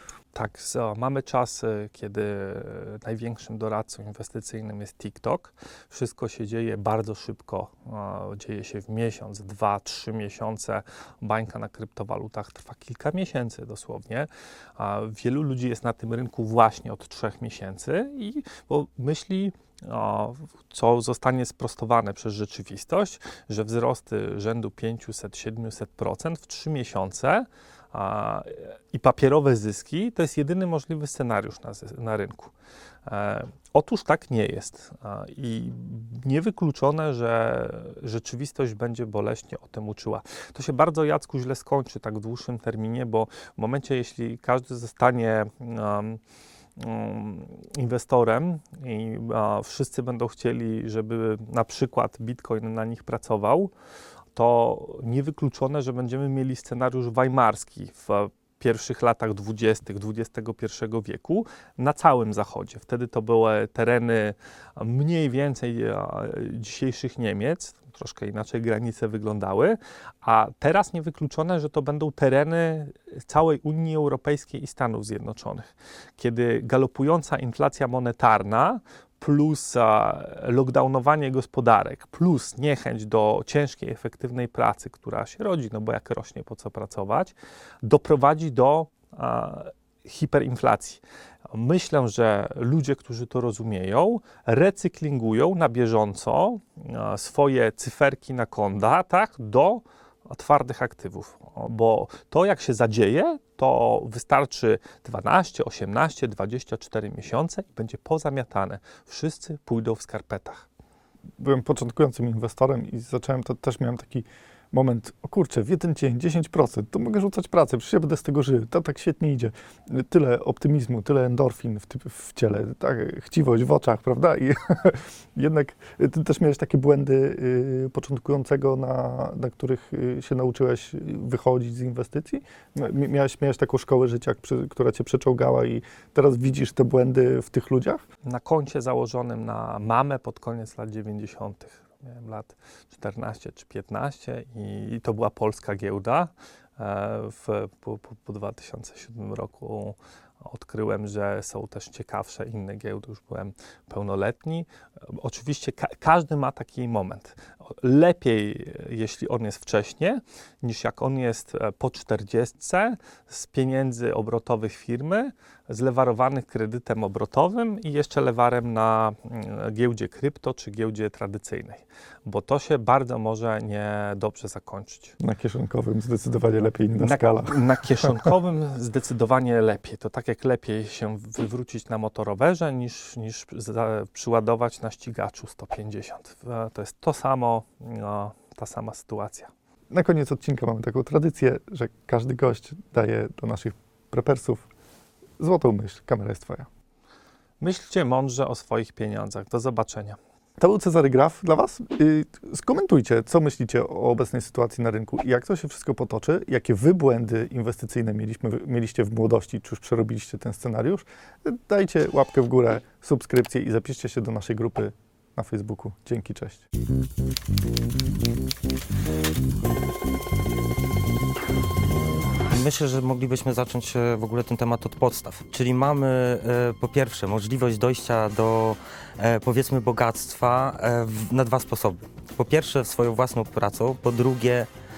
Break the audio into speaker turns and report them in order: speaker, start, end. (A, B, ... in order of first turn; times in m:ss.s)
0:00.3-0:32.5 A
0:33.1-0:46.2 A
0:46.8-0:53.7 A
0:54.4-1:31.0 A
1:31.5-1:50.7 A
1:51.4-2:18.0 B
2:18.3-2:55.2 A
2:55.2-2:58.3 B
2:57.0-3:09.5 A
3:09.9-3:14.7 B
3:15.4-3:16.7 B
3:17.6-3:20.2 A
3:20.6-3:36.7 B
3:42.5-3:54.7 C